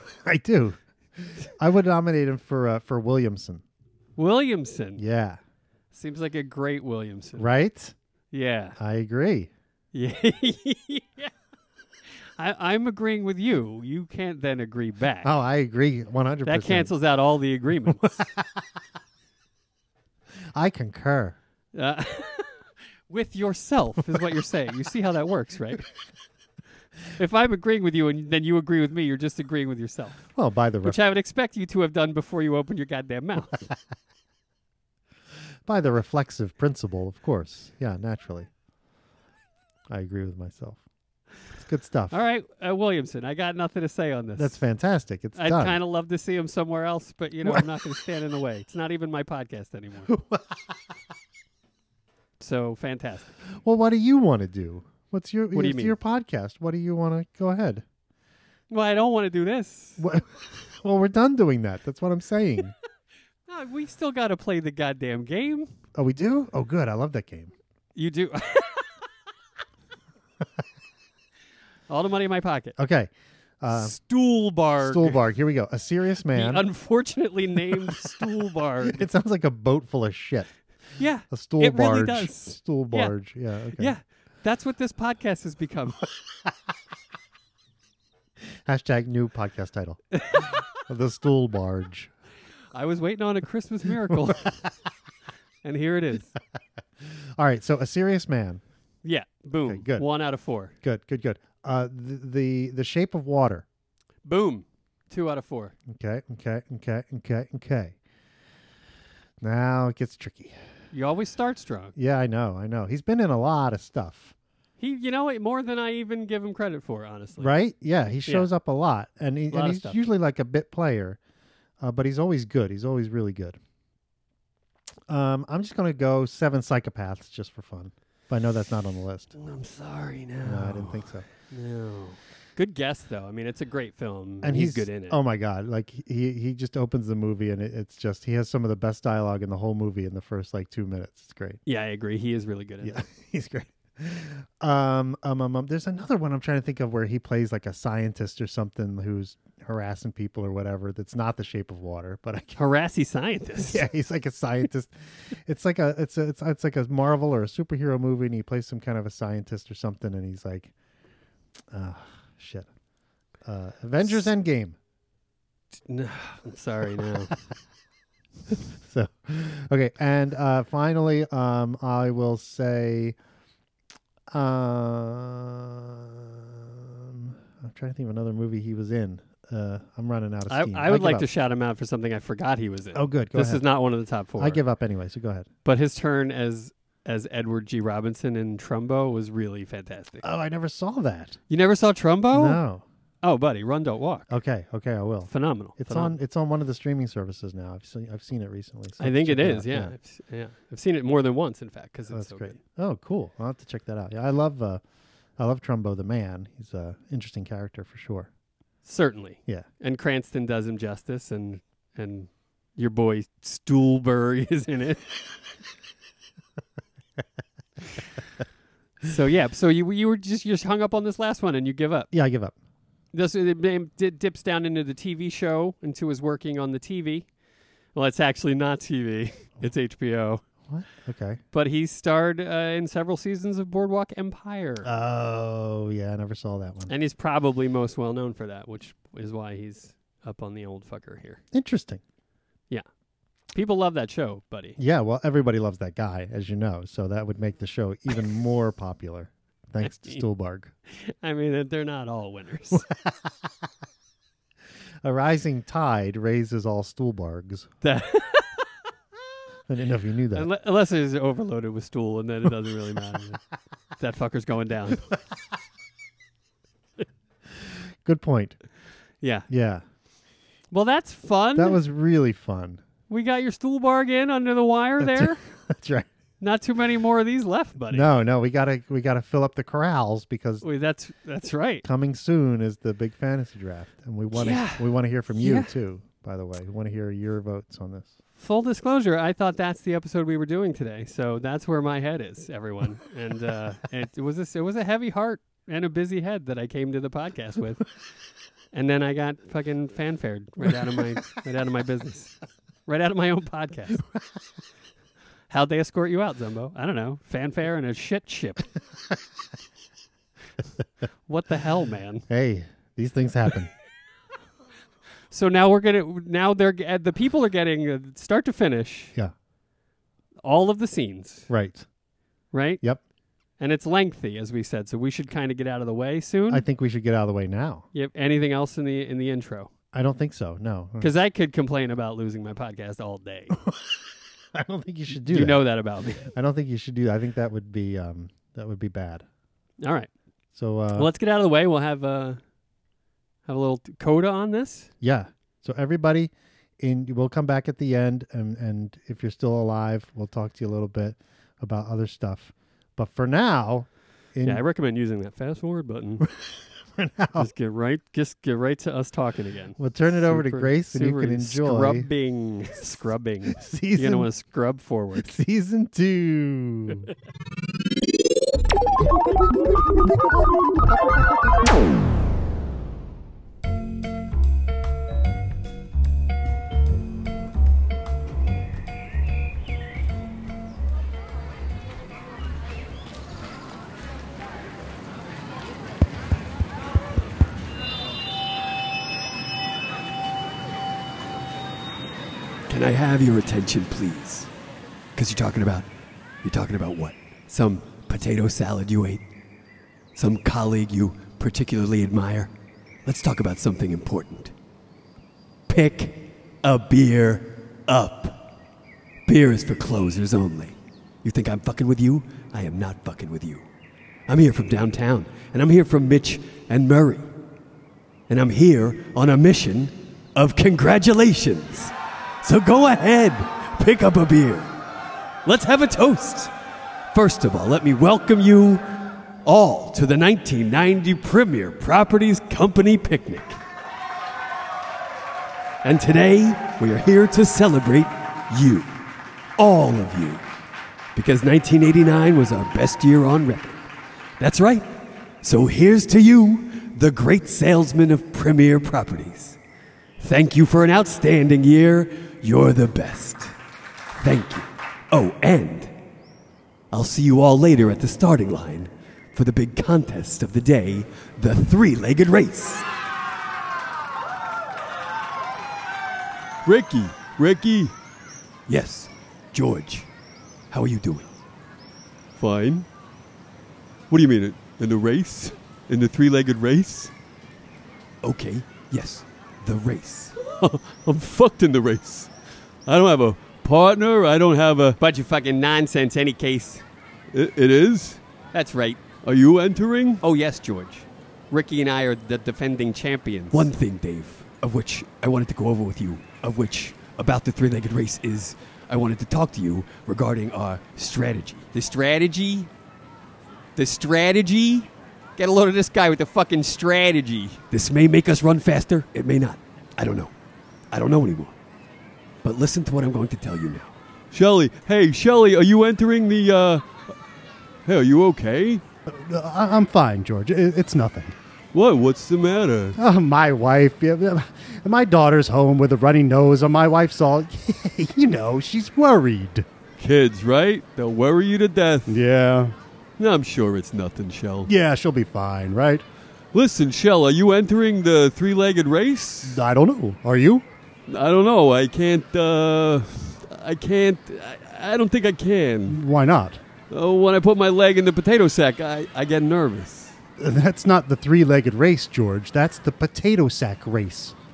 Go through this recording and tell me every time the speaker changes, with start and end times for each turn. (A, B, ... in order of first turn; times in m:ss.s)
0:00.2-0:00.8 A
0:01.6-0:03.6 A
0:04.2-0:05.0 B
0:05.0-0:05.4 A
0:05.9-0:07.4 B
0:07.4-0:08.0 A
0:08.3-0:08.8 B
0:08.8-0:09.5 A
0:09.9-0:11.3 B
0:12.4-0:15.3 B
0:15.2-0:16.9 A
0:16.5-0:18.1 B
0:17.9-0:18.3 A
0:20.5-0:21.4 A
0:21.8-0:22.5 B
0:23.1-0:25.8 B
0:27.2-0:30.2 B
0:30.3-0:31.0 A
0:30.8-0:33.6 B
0:35.7-0:38.5 A
0:39.9-0:40.8 A
0:41.6-0:42.2 A
0:42.1-0:44.6 B
0:44.4-0:45.8 A
0:45.4-0:50.1 B
0:50.1-0:50.4 A
0:52.4-0:53.3 B
0:53.6-0:57.8 A
0:55.5-0:55.9 B
0:58.7-1:00.0 B
1:00.0-1:00.2 A
1:00.8-1:02.7 A
1:03.5-1:05.7 B
1:06.0-1:07.5 A
1:08.0-1:08.8 B
1:11.9-1:12.8 B
1:12.8-1:14.0 A
1:13.7-1:15.2 B
1:14.8-1:16.7 A
1:16.3-1:19.1 B
1:17.9-1:18.3 A
1:18.8-1:20.5 A
1:21.0-1:23.2 B
1:21.3-1:24.0 A
1:23.8-1:26.0 B
1:28.7-1:30.0 A
1:30.8-1:32.1 A
1:32.7-1:34.4 B
1:35.6-1:36.3 B
1:37.4-1:38.6 A
1:39.0-1:40.7 B
1:39.6-1:40.1 A
1:40.8-1:43.6 A
1:44.2-1:45.7 B
1:45.9-1:48.0 A
1:49.4-1:50.6 A
1:50.9-1:51.9 B
1:52.0-1:54.3 A
1:54.8-1:57.5 B
1:57.4-2:01.2 A
1:59.5-2:00.0 B
2:01.8-2:03.6 A
2:05.1-2:09.3 A
2:09.4-2:10.7 B
2:10.4-2:11.2 A
2:11.5-2:15.1 B
2:14.4-2:21.6 A
2:21.7-2:23.0 B
2:22.8-2:32.6 A
2:32.6-2:33.8 B
2:33.6-2:34.9 A
2:35.5-2:40.7 A
2:41.7-2:42.7 A
2:43.4-2:44.8 A
2:45.9-2:47.3 B
2:48.9-2:53.2 A
2:54.3-2:55.8 A
2:57.1-3:01.3 A
3:00.5-3:04.6 B
3:02.9-3:03.6 A
3:04.4-3:05.5 A
3:05.7-3:10.2 B
3:10.2-3:11.4 A
3:11.5-3:12.6 B
3:12.3-3:12.8 A
3:13.2-3:14.3 B
3:14.3-3:20.0 A
3:15.3-3:16.2 B
3:19.0-3:22.6 B
3:22.1-3:24.8 A
3:25.4-3:28.3 A
3:28.8-3:35.0 B
3:39.0-3:42.1 B
3:42.1-3:42.6 A
3:43.1-3:47.3 B
3:47.9-3:50.4 B
3:50.7-3:51.4 A
3:51.5-3:54.9 B
3:54.8-3:56.9 A
3:56.9-4:01.4 B
4:01.5-4:02.0 A
4:03.5-4:04.8 B
4:04.8-4:10.7 A
4:09.8-4:10.2 B
4:11.2-4:12.8 B
4:15.0-4:17.7 A
4:17.8-4:18.5 B
4:19.7-4:20.5 A
4:20.3-4:23.4 B
4:24.0-4:25.0 B
4:28.0-4:28.6 A
4:29.2-4:29.5 B
4:29.5-4:29.8 A
4:30.7-4:31.8 B
4:31.6-4:32.8 A
4:33.1-4:35.4 B
4:35.0-4:36.1 A
4:36.4-4:38.1 B
4:37.9-4:40.7 A
4:40.6-4:41.8 B
4:41.8-4:48.2 A
4:44.3-4:45.7 B
4:48.4-4:57.8 B
4:58.7-5:02.3 B
5:02.9-5:04.0 B
5:05.5-5:08.6 B
5:11.3-5:12.2 B
5:12.3-5:13.7 A
5:15.3-5:19.1 B
5:20.4-5:21.5 B
5:21.5-5:21.9 A
5:22.5-5:22.8 B
5:23.6-5:26.6 B
5:26.5-5:27.9 A
5:27.9-5:29.7 B
5:29.9-5:31.1 A
5:31.0-5:33.5 B
5:34.6-5:35.7 A
5:35.2-5:36.3 B
5:36.3-5:39.2 A
5:39.8-5:40.1 B
5:40.6-5:41.1 A
5:41.0-5:42.4 B
5:43.5-5:44.9 B
5:45.0-5:54.6 A
5:54.5-5:56.2 B
5:57.0-5:57.5 A
5:57.4-6:05.4 B
5:59.8-6:02.1 A
6:03.5-6:04.3 A
6:05.2-6:07.0 A
6:32.7-6:34.5 C
6:35.2-6:35.9 C
6:36.4-6:39.2 C
6:40.2-6:42.5 C
6:43.0-6:44.5 C
6:45.7-6:48.4 C
6:49.3-6:53.7 C
6:54.3-6:57.3 C
6:58.3-7:04.7 C
7:05.4-7:06.5 C
7:07.1-7:08.8 C
7:09.4-7:13.6 C
7:15.8-7:18.9 C
7:19.6-7:20.4 C
7:21.2-7:23.8 C
7:24.4-7:24.9 C
7:25.4-7:29.6 C
7:30.2-7:33.5 C
7:34.2-7:35.9 C
7:36.9-7:42.9 C
7:46.6-7:47.9 D
7:48.7-7:50.1 C
7:50.7-7:51.3 C
7:52.4-7:52.9 D
7:54.1-7:57.1 D
7:58.2-8:00.4 C
8:00.6-8:02.3 D
8:02.9-8:05.0 D
8:05.0-8:06.8 B
8:07.3-8:08.2 D
8:08.5-8:09.0 B
8:09.2-8:10.2 D
8:10.2-8:13.7 B
8:13.5-8:21.7 C
8:21.7-8:22.7 B
8:23.8-8:27.6 B
8:27.7-8:30.3 C
8:30.9-8:31.6 C
8:32.4-8:33.9 C
8:34.3-8:37.1 D
8:37.9-8:38.8 D
8:39.1-8:41.4 E
8:41.7-8:43.0 D
8:43.0-8:49.6 E
8:50.0-8:52.2 D
8:52.1-8:52.7 E
8:53.2-8:54.7 D
8:54.7-8:56.0 E
8:56.5-8:59.6 D
8:59.4-9:00.6 E
9:01.1-9:06.0 D
9:05.9-9:06.6 E
9:06.9-9:10.2 D
9:10.4-9:14.4 E